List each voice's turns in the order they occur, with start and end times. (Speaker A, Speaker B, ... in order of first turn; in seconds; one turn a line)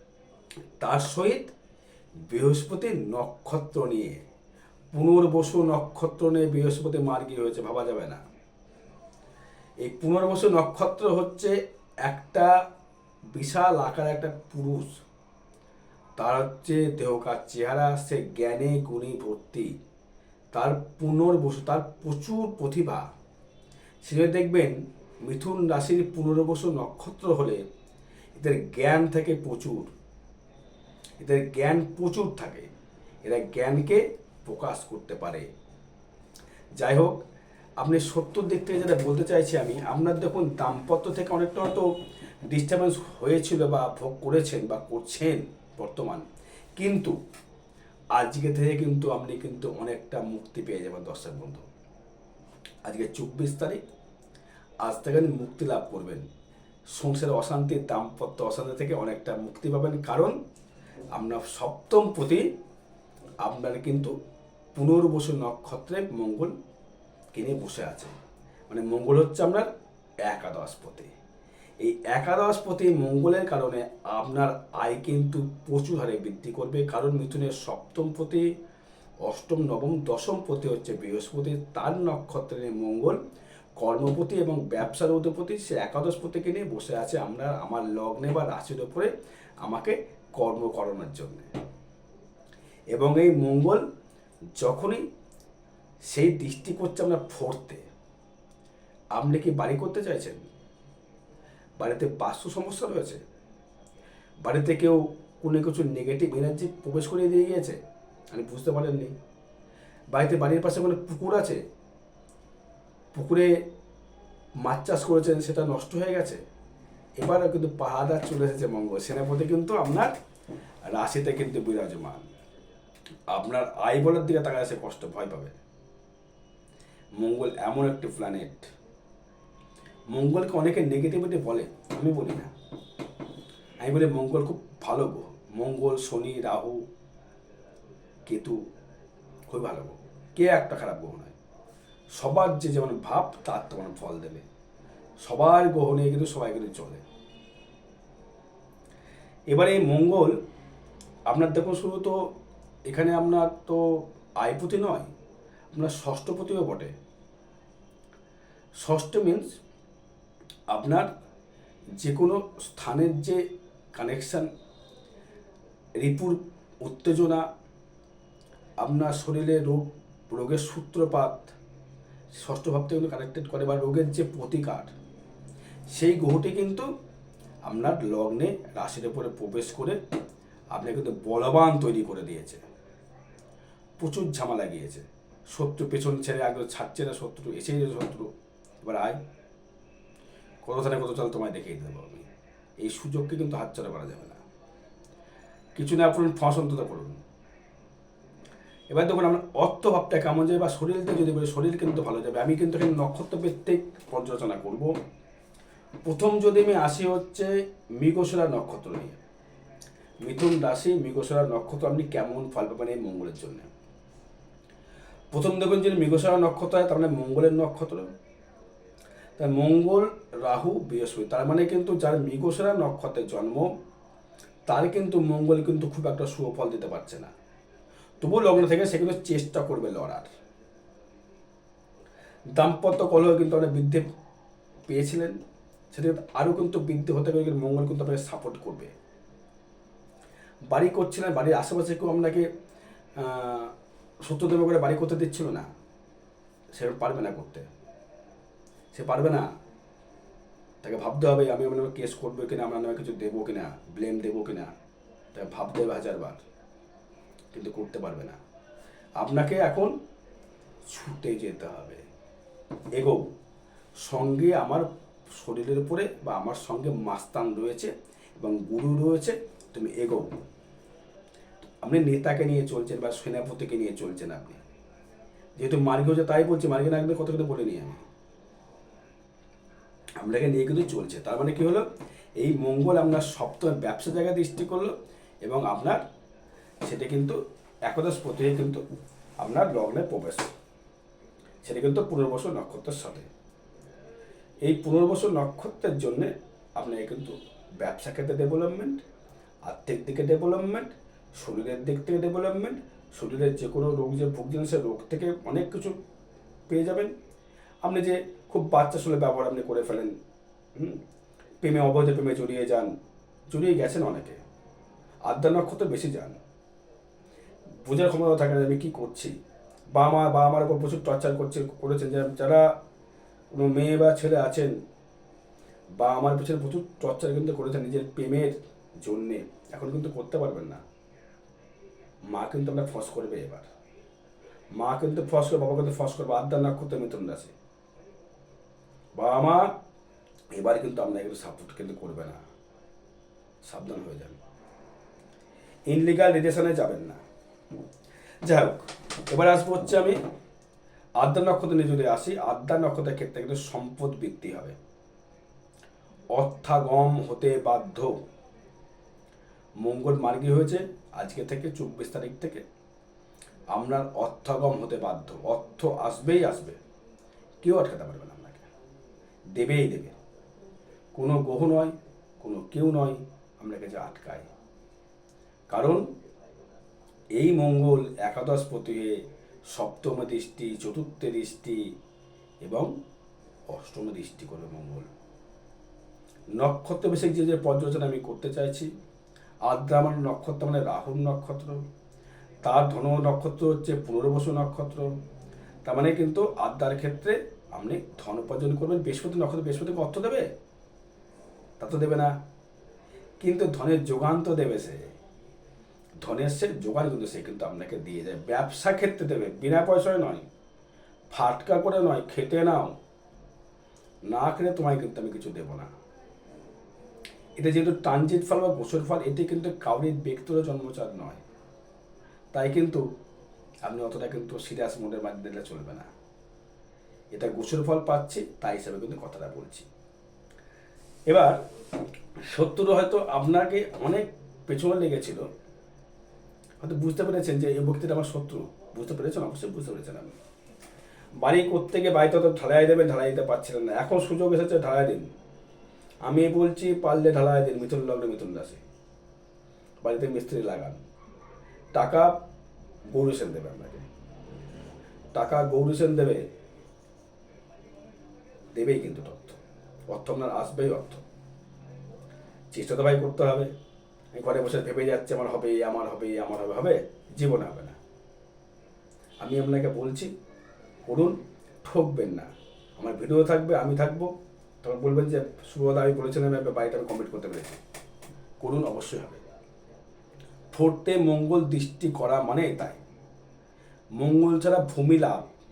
Speaker A: 0.8-1.5
Speaker A: 2.3-4.2
Speaker A: 4.9-8.2
Speaker A: 9.8-12.6
Speaker A: 13.3-14.9
Speaker A: 16.2-19.7
Speaker A: 20.5-23.1
Speaker A: 24.0-27.6
Speaker A: 28.4-29.9
Speaker A: 31.2-32.7
Speaker A: 33.2-35.5
Speaker A: 36.8-37.2
Speaker A: 37.8-41.9
Speaker A: 42.5-46.2
Speaker A: 46.8-47.2
Speaker A: 48.2-51.6
Speaker A: 52.9-53.8
Speaker A: 54.8-56.3
Speaker A: 56.9-60.4
Speaker A: 61.1-62.5
Speaker A: 63.4-64.1
Speaker A: 64.8-66.5
Speaker A: 67.3-68.1
Speaker A: 68.7-69.7
Speaker A: 70.3-71.1
Speaker A: 71.8-78.5
Speaker A: 79.2-83.2
Speaker A: 83.8-89.1
Speaker A: 89.6-91.5
Speaker A: 92.9-93.8
Speaker A: 94.6-95.0
Speaker A: 96.1-97.8
Speaker A: 99.2-100.4
Speaker A: 101.8-103.2
Speaker A: 104.5-107.8
Speaker A: 108.3-109.1
Speaker A: 110.1-111.6
Speaker A: 113.1-113.5
Speaker A: 114.6-116.4
Speaker A: 117.2-120.1
Speaker A: 120.9-122.2
Speaker A: 123.3-125.5
Speaker A: 127.2-128.7
Speaker A: 130.1-132.5
Speaker A: 133.8-136.8
Speaker A: 138.3-138.6
Speaker A: 139.5-141.3
Speaker A: 142.1-144.4
Speaker A: 145.2-147.0
Speaker A: 149.5-150.4
Speaker A: 151.3-152.3
Speaker A: 152.9-155.1
Speaker A: 155.7-156.9
Speaker A: 158.8-159.5
Speaker A: 160.7-161.1
Speaker A: 162.0-164.5
Speaker A: 166.0-167.5
Speaker A: 168.8-171.6
Speaker A: 172.3-174.9
Speaker A: 175.9-176.9
Speaker A: 177.7-180.0
Speaker A: 180.7-182.6
Speaker A: 184.0-188.3
Speaker A: 188.8-189.2
Speaker A: 190.6-192.3
Speaker A: 192.8-194.4
Speaker A: 195.8-197.2
Speaker A: 198.9-204.9
Speaker A: 206.1-209.2
Speaker A: 210.2-213.7
Speaker A: 215.3-218.1
Speaker A: 219.4-223.7
Speaker A: 224.7-227.3
Speaker A: 228.2-230.3
Speaker A: 232.5-234.1
Speaker A: 234.9-235.4
Speaker A: 235.9-238.9
Speaker A: 240.7-242.5
Speaker A: 243.2-245.7
Speaker A: 246.8-247.7
Speaker A: 248.9-249.5
Speaker A: 250.8-254.7
Speaker A: 255.3-256.4
Speaker A: 257.5-258.4
Speaker A: 259.2-259.9
Speaker A: 260.9-262.0
Speaker A: 262.9-263.3
Speaker A: 264.0-270.3
Speaker A: 271.8-274.6
Speaker A: 275.6-278.0
Speaker A: 280.2-281.9
Speaker A: 282.4-286.0
Speaker A: 286.8-288.8
Speaker A: 289.4-290.5
Speaker A: 291.6-293.3
Speaker A: 294.6-299.0
Speaker A: 299.7-305.9
Speaker A: 306.7-307.1
Speaker A: 307.8-310.1
Speaker A: 310.8-311.0
Speaker A: 311.6-312.9
Speaker A: 313.5-314.4
Speaker A: 315.2-316.4
Speaker A: 317.8-319.4
Speaker A: 319.9-322.7
Speaker A: 323.5-324.8
Speaker A: 325.9-330.8
Speaker A: 332.3-333.7
Speaker A: 334.7-337.5
Speaker A: 339.2-339.7
Speaker A: 340.5-342.4
Speaker A: 343.6-344.4
Speaker A: 345.9-347.2
Speaker A: 348.4-350.2
Speaker A: 351.2-354.8
Speaker A: 356.3-358.2
Speaker A: 359.8-362.6
Speaker A: 363.7-366.8
Speaker A: 367.6-368.7
Speaker A: 369.6-370.2
Speaker A: 371.1-374.5
Speaker A: 375.7-376.1
Speaker A: 377.4-381.9
Speaker A: 382.6-382.9
Speaker A: 383.7-385.1
Speaker A: 386.6-388.9
Speaker A: 389.7-391.8
Speaker A: 392.6-395.1
Speaker A: 395.9-400.5
Speaker A: 401.8-402.3
Speaker A: 403.4-405.0
Speaker A: 406.2-410.4
Speaker A: 411.3-413.0
Speaker A: 414.3-415.9
Speaker A: 417.6-421.4
Speaker A: 422.5-423.0
Speaker A: 423.8-426.1
Speaker A: 427.3-429.9
Speaker A: 431.3-431.6
Speaker A: 432.4-435.4
Speaker A: 436.8-440.3
Speaker A: 441.4-445.3
Speaker A: 446.3-448.8
Speaker A: 450.0-451.0
Speaker A: 451.9-452.3
Speaker A: 453.1-454.1
Speaker A: 455.3-456.4
Speaker A: 458.8-461.2
Speaker A: 462.7-463.7
Speaker A: 464.3-468.0
Speaker A: 469.4-470.3
Speaker A: 471.1-474.3
Speaker A: 474.8-477.8
Speaker A: 478.6-479.4
Speaker A: 480.7-483.0
Speaker A: 484.2-485.5